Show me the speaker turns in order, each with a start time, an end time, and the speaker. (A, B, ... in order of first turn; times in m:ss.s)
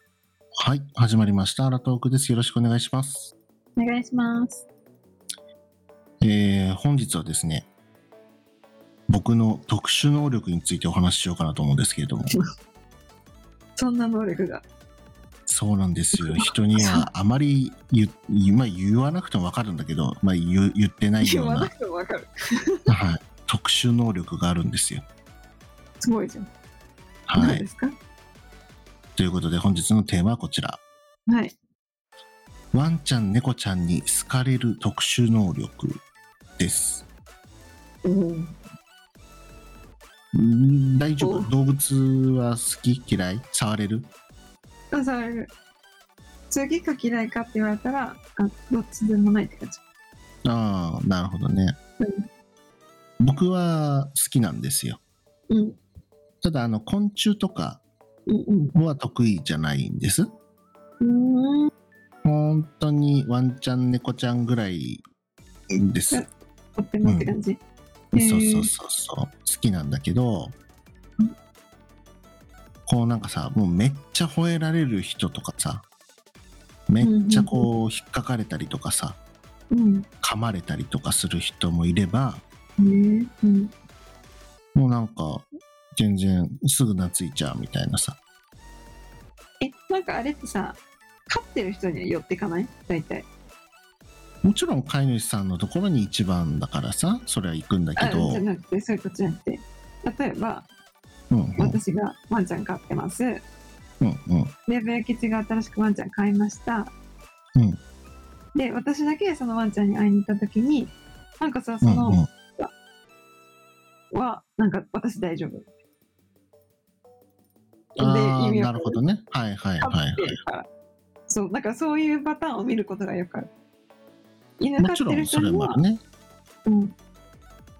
0:00.6-0:03.3 A
0:03.8-0:04.6 B
0:06.2-0:07.7 A
0:09.1-0:12.3 A
0:13.8-0:14.6 B
0:15.5-0:21.7 A
0:16.2-0:17.1 B
0:21.2-0:22.9 B
0:22.9-0:25.0 A
0:26.0-0:26.5 B
0:27.3-0:27.6 A
0:27.4-0:27.9 B
0:29.2-0:30.8 A
0:31.3-0:31.5 B
0:32.7-0:36.0 A
0:36.6-0:37.1 A
0:38.0-0:38.5 B
0:40.3-0:44.1 A
0:41.2-0:41.5 B
0:44.9-0:45.5 B
0:46.5-0:49.8 B
0:50.4-0:51.8 A
0:53.2-0:55.0 A
0:55.5-0:55.8 B
0:56.4-0:57.8 A
0:58.3-0:58.7 B
0:58.7-1:00.3 A
1:01.0-1:01.7 B
1:02.2-1:05.0 A
1:05.7-1:06.2 A
1:06.1-1:07.6 B
1:07.0-1:07.3 A
1:08.1-1:10.5 A
1:08.1-1:08.7 B
1:12.8-1:15.8 A
1:16.9-1:19.2 A
1:17.0-1:17.7 B
1:19.7-1:20.1 B
1:20.2-1:22.4 A
1:22.8-1:23.7 B
1:24.7-1:28.2 A
1:29.6-1:33.3 B
1:34.4-1:38.4 A
1:38.0-1:40.6 B
1:41.3-1:41.8 A
1:41.6-1:43.4 B
1:44.0-1:44.5 A
1:44.7-1:46.9 B
1:48.5-1:52.7 B
1:51.8-1:52.3 A
1:54.1-1:55.7 B
1:58.0-1:59.0 B
1:58.0-2:00.4 A
1:59.8-2:00.6 B
2:01.3-2:03.5 B
2:04.6-2:05.8 B
2:04.8-2:06.0 A
2:06.6-2:06.9 B